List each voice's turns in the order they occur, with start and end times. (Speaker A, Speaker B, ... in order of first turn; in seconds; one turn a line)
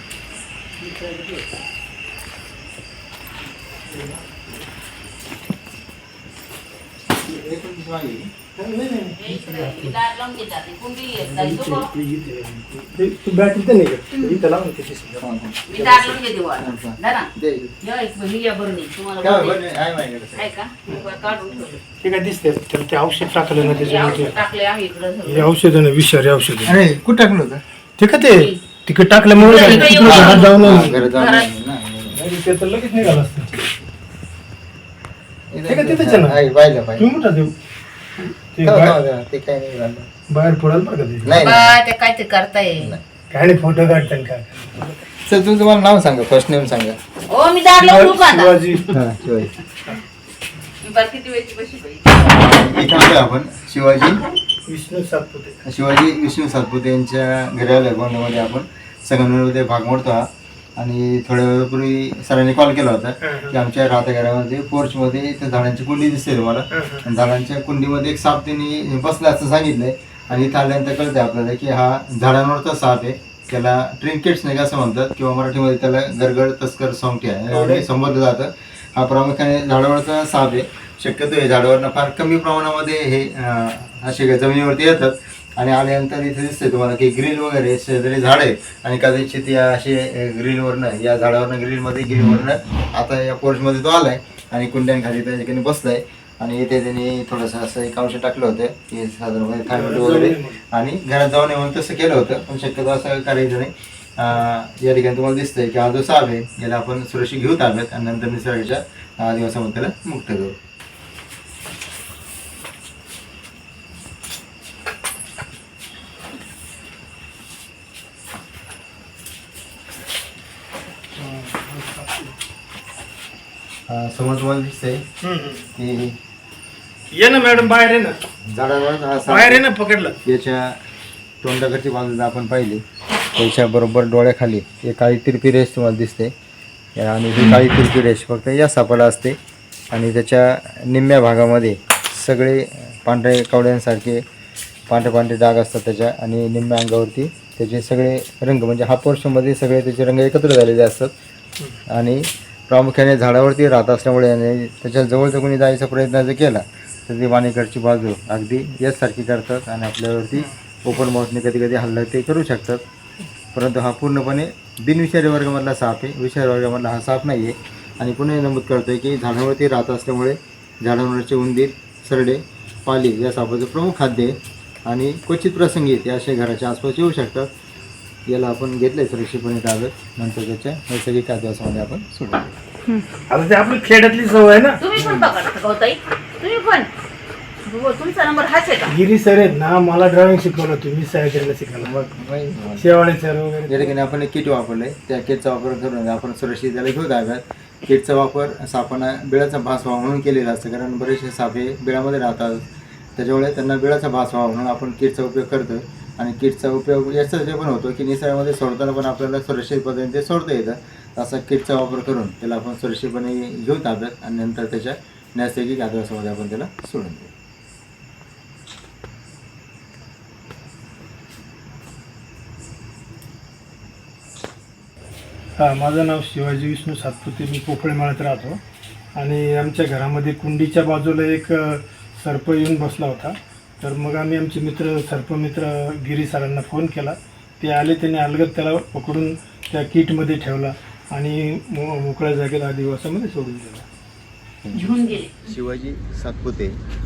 Speaker A: 3.9-4.2
Speaker B: 7.1-8.3
Speaker A: 8.6-10.0
Speaker C: 9.2-11.9
Speaker A: 11.2-15.3
Speaker B: 15.2-17.7
Speaker C: 15.7-17.3
Speaker C: 17.8-19.6
Speaker B: 19.2-21.7
Speaker C: 20.4-21.8
Speaker A: 22.0-24.4
Speaker C: 23.6-25.5
Speaker A: 25.2-26.8
Speaker B: 26.6-27.6
Speaker A: 28.0-31.0
Speaker C: 28.3-28.6
Speaker C: 29.4-31.5
Speaker B: 29.6-32.2
Speaker A: 32.1-33.7
Speaker B: 35.5-37.1
Speaker A: 35.6-36.4
Speaker A: 37.0-37.5
Speaker A: 38.5-39.0
Speaker B: 38.6-40.1
Speaker A: 40.3-41.4
Speaker B: 41.2-41.8
Speaker C: 41.3-43.0
Speaker A: 43.3-45.0
Speaker B: 45.3-47.0
Speaker C: 47.3-48.8
Speaker A: 47.8-49.0
Speaker B: 48.9-49.5
Speaker C: 50.8-52.5
Speaker B: 52.3-54.2
Speaker A: 54.6-55.6
Speaker B: 55.6-110.5
Speaker A: 63.2-63.6
Speaker A: 66.7-67.1
Speaker A: 77.5-77.9
Speaker A: 99.7-100.6
Speaker A: 121.2-122.3
Speaker B: 123.9-125.0
Speaker A: 125.2-125.7
Speaker B: 125.8-126.1
Speaker A: 127.1-128.2
Speaker B: 128.5-129.7
Speaker A: 129.3-130.2
Speaker B: 130.2-130.8
Speaker B: 131.4-132.8
Speaker B: 133.3-136.3
Speaker B: 136.9-139.4
Speaker B: 139.9-144.2
Speaker B: 144.9-151.1
Speaker B: 151.9-162.8
Speaker B: 163.5-177.5
Speaker B: 178.3-182.5
Speaker A: 183.3-185.2
Speaker C: 184.8-186.9
Speaker C: 187.6-188.9
Speaker A: 188.9-192.0
Speaker B: 191.8-192.8
Speaker A: 192.8-194.0
Speaker B: 193.7-202.6
Speaker B: 203.2-217.3
Speaker A: 225.6-228.6
Speaker A: 229.1-243.8
Speaker B: 244.6-246.8
Speaker C: 244.7-245.4